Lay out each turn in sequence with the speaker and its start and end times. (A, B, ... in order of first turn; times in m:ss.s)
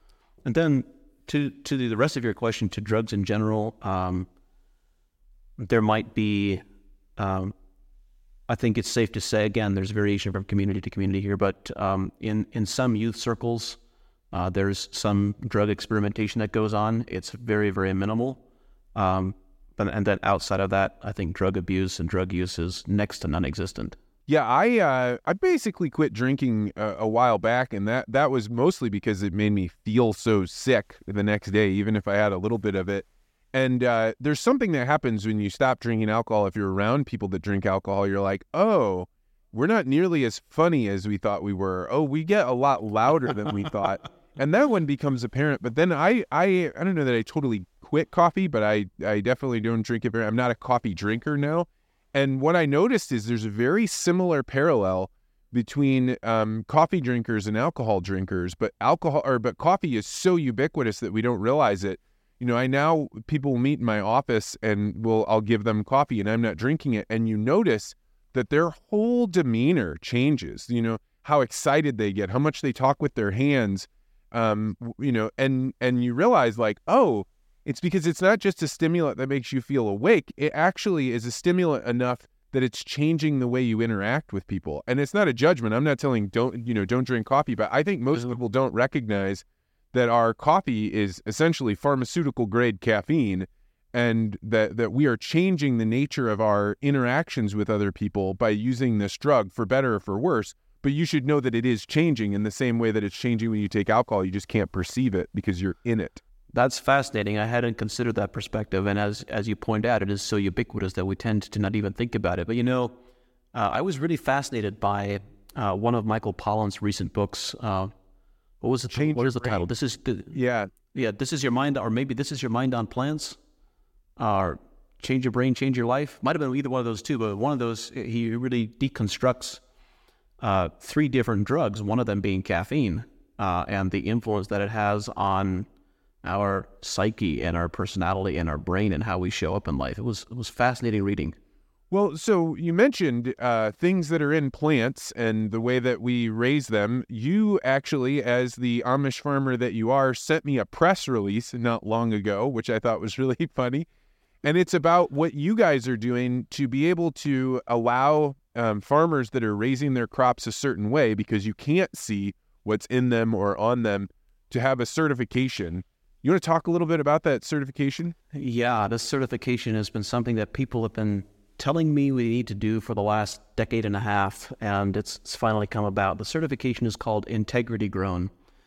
0:00.4-0:04.3 A
0:05.6-0:06.6 A
0:07.2-0:07.5 A
0:08.5-0:13.8 A
0:14.3-0:18.4 A
0:18.9-0:24.0 A
0:24.3-1:46.2 B
1:46.5-1:53.0 A
1:53.5-1:57.9 A
1:58.6-2:00.4 A
1:58.9-1:59.7 B
2:00.3-2:00.7 B
2:00.9-2:03.4 A
2:04.2-2:09.6 A
2:10.4-2:15.7 A
2:16.2-2:21.3 A
2:21.9-2:33.9 B
2:34.4-2:48.1 B
2:48.3-2:58.3 A